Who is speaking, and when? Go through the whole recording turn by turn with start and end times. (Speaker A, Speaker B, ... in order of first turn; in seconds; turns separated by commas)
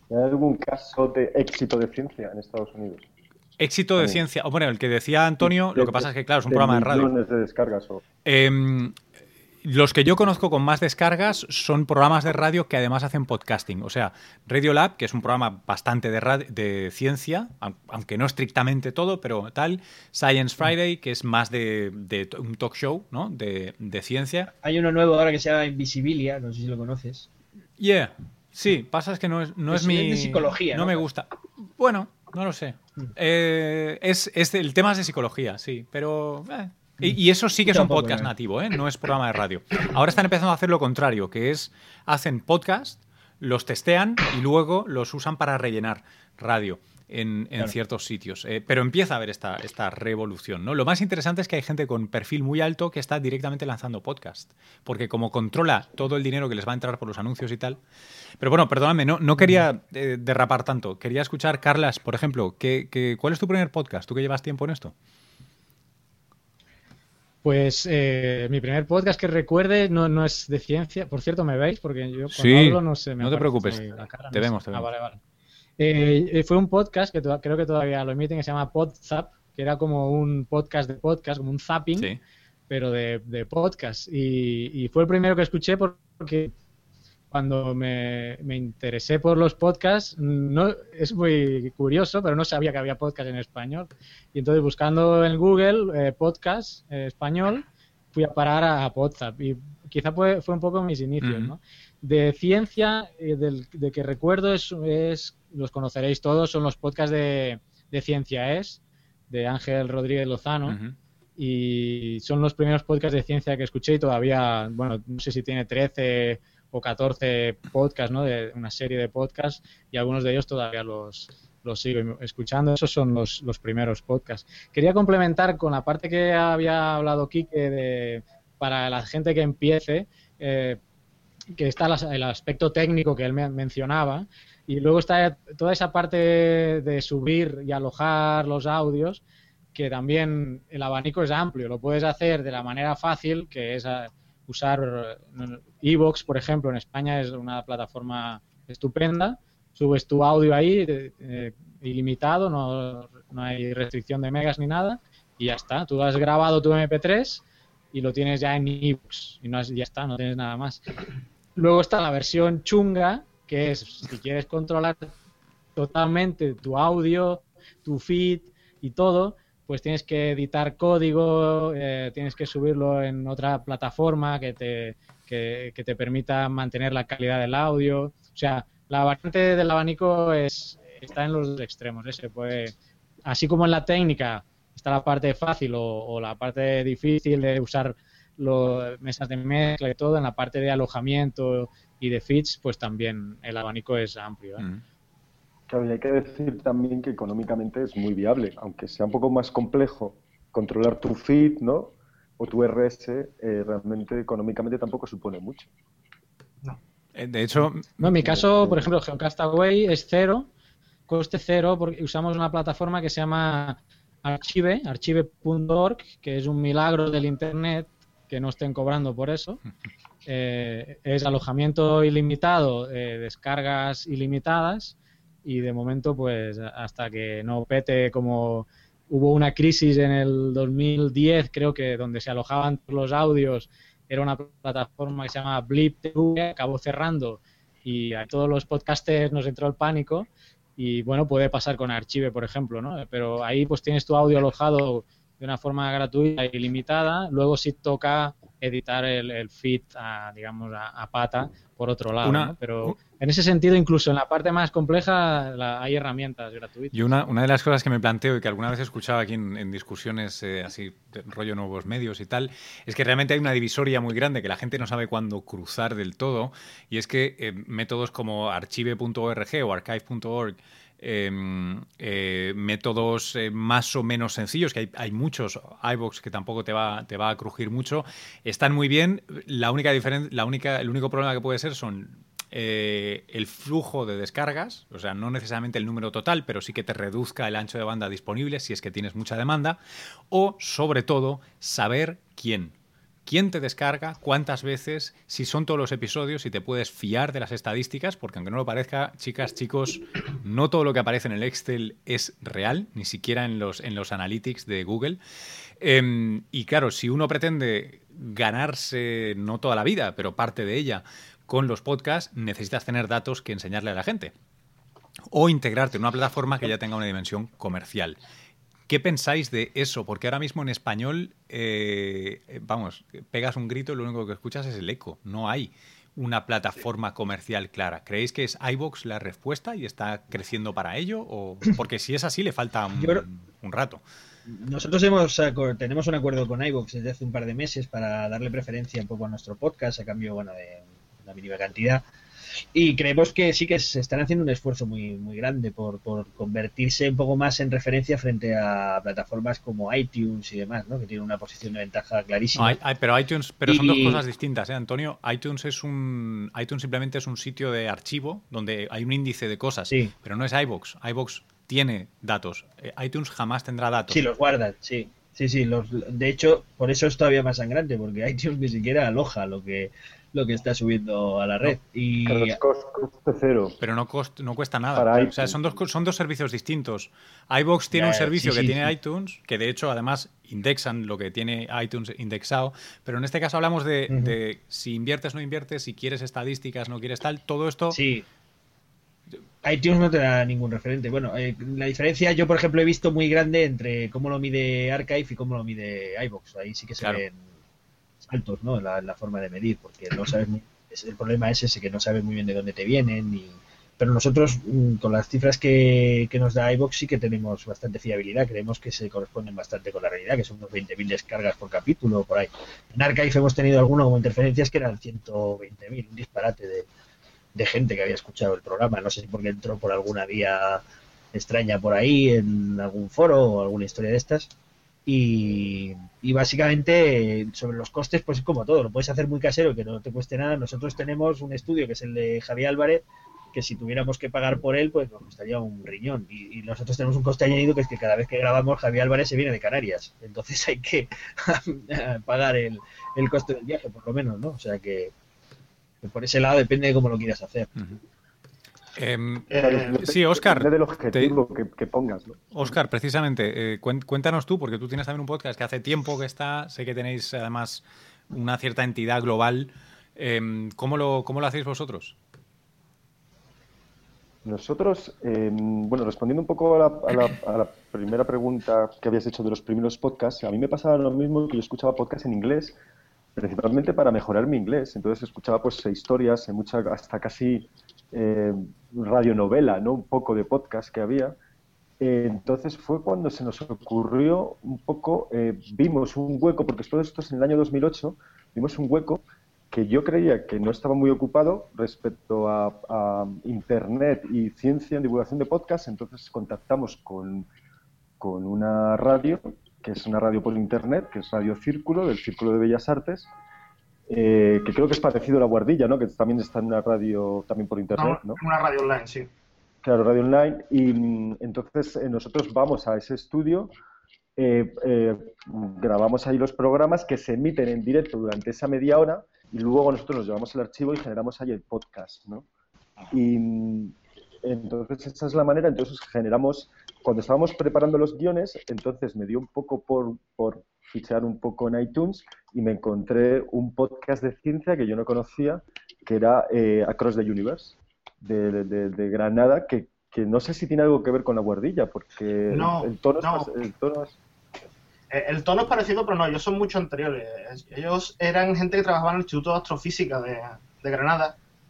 Speaker A: 0.1-3.0, Speaker B: 3.6-7.1, Speaker A: 4.0-4.2, Speaker A: 5.4-8.0, Speaker B: 8.2-8.9, Speaker B: 9.6-24.5, Speaker C: 24.6-27.3, Speaker B: 27.8-57.8, Speaker C: 29.7-31.0, Speaker C: 37.6-38.3, Speaker B: 58.4-64.9, Speaker D: 67.4-75.2, Speaker B: 72.3-74.9, Speaker D: 75.8-82.1, Speaker D: 82.7-86.5, Speaker D: 87.3-110.8, Speaker B: 101.2-101.5, Speaker B: 110.7-110.9, Speaker D: 111.4-130.8, Speaker D: 131.6-139.2, Speaker D: 139.7-160.8, Speaker D: 161.6-165.1, Speaker D: 165.8-182.7, Speaker D: 183.2-194.7, Speaker A: 195.7-205.7, Speaker B: 207.1-208.3, Speaker D: 207.9-210.5, Speaker A: 208.3-208.9, Speaker D: 211.1-219.6, Speaker D: 220.2-257.1, Speaker B: 252.2-252.9, Speaker B: 256.9-289.8, Speaker B: 290.3-292.7, Speaker B: 293.2-305.2, Speaker B: 305.8-314.3, Speaker B: 315.3-318.2, Speaker B: 318.9-334.0, Speaker C: 333.0-333.2, Speaker C: 334.5-342.0, Speaker C: 342.7-352.8, Speaker B: 352.6-364.2, Speaker C: 353.6-354.2, Speaker C: 364.1-372.6, Speaker A: 372.3-373.8, Speaker B: 373.8-388.0, Speaker A: 374.9-375.6, Speaker C: 377.9-378.9, Speaker C: 387.9-388.2, Speaker C: 389.6-397.4, Speaker C: 398.2-416.9, Speaker C: 417.5-420.8, Speaker C: 421.3-424.5, Speaker C: 425.1-445.1, Speaker C: 446.0-447.7, Speaker B: 448.9-451.4, Speaker E: 449.5-450.0, Speaker A: 449.5-452.4, Speaker B: 452.5-462.2, Speaker A: 464.4-472.8, Speaker A: 473.4-481.4, Speaker A: 482.0-497.5, Speaker A: 498.2-503.3, Speaker A: 504.1-508.4, Speaker E: 507.9-509.3, Speaker A: 509.8-513.7, Speaker A: 514.4-522.5, Speaker A: 523.1-544.2, Speaker E: 542.5-543.5, Speaker E: 545.1-551.4